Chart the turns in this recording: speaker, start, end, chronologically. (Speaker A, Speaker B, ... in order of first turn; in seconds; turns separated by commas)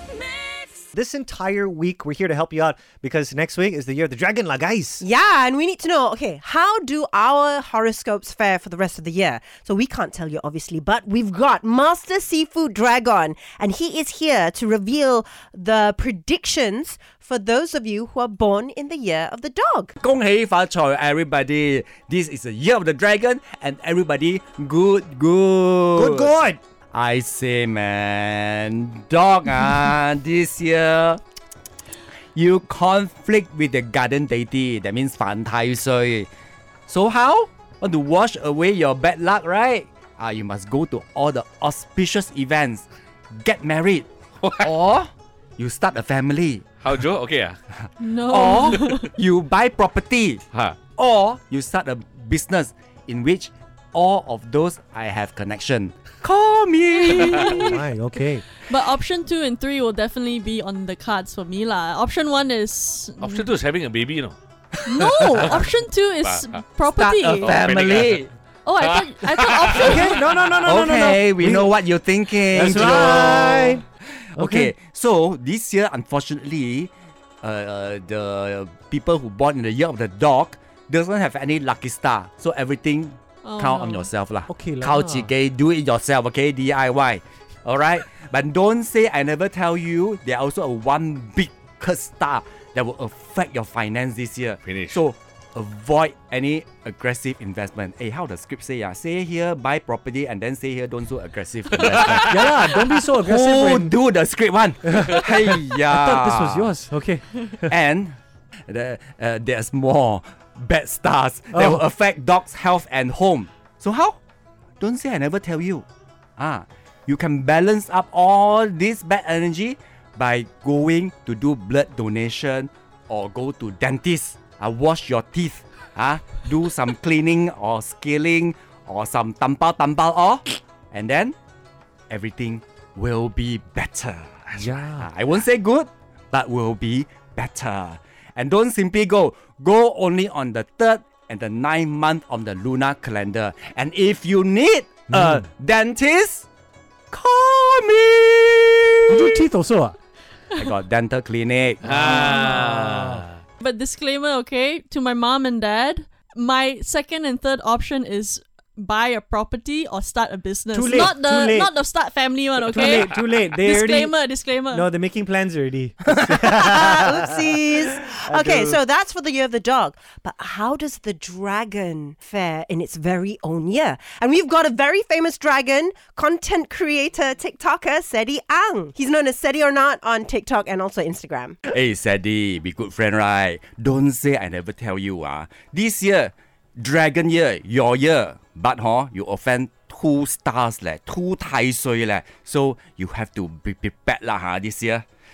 Speaker A: 0.9-5.0, Speaker B: 5.0-19.9, Speaker C: 20.0-26.3, Speaker A: 25.9-26.6, Speaker C: 26.9-31.2, Speaker C: 32.3-36.3, Speaker C: 36.9-44.1, Speaker D: 44.4-44.7, Speaker C: 44.6-47.0, Speaker D: 46.8-47.6, Speaker C: 47.7-57.9, Speaker E: 48.0-49.1, Speaker D: 50.5-50.8, Speaker E: 57.0-57.4, Speaker A: 57.6-58.5, Speaker E: 58.6-63.5, Speaker D: 63.2-64.4, Speaker C: 64.8-65.5, Speaker E: 64.9-67.5, Speaker D: 66.2-66.5, Speaker C: 66.9-68.3, Speaker D: 67.5-68.2, Speaker E: 68.6-70.2, Speaker D: 68.8-69.8, Speaker A: 69.8-71.7, Speaker C: 70.5-76.9, Speaker A: 72.5-73.8, Speaker A: 74.4-74.7, Speaker C: 77.4-106.8, Speaker E: 83.4-84.1, Speaker A: 84.5-85.3, Speaker D: 94.6-95.0, Speaker A: 101.8-103.9, Speaker A: 104.8-107.7, Speaker C: 107.6-114.2, Speaker A: 111.5-111.8, Speaker C: 114.8-115.8, Speaker C: 116.4-131.3, Speaker C: 132.1-146.5, Speaker A: 134.6-135.0, Speaker A: 145.1-145.4, Speaker C: 147.1-149.4, Speaker A: 149.1-149.9, Speaker C: 150.6-152.1, Speaker A: 151.9-153.2, Speaker E: 152.1-152.7, Speaker D: 152.6-153.0, Speaker C: 152.7-153.1, Speaker E: 153.6-164.9, Speaker A: 160.7-161.7, Speaker A: 162.6-167.4, Speaker B: 166.7-181.5, Speaker A: 168.1-168.8, Speaker C: 181.7-195.0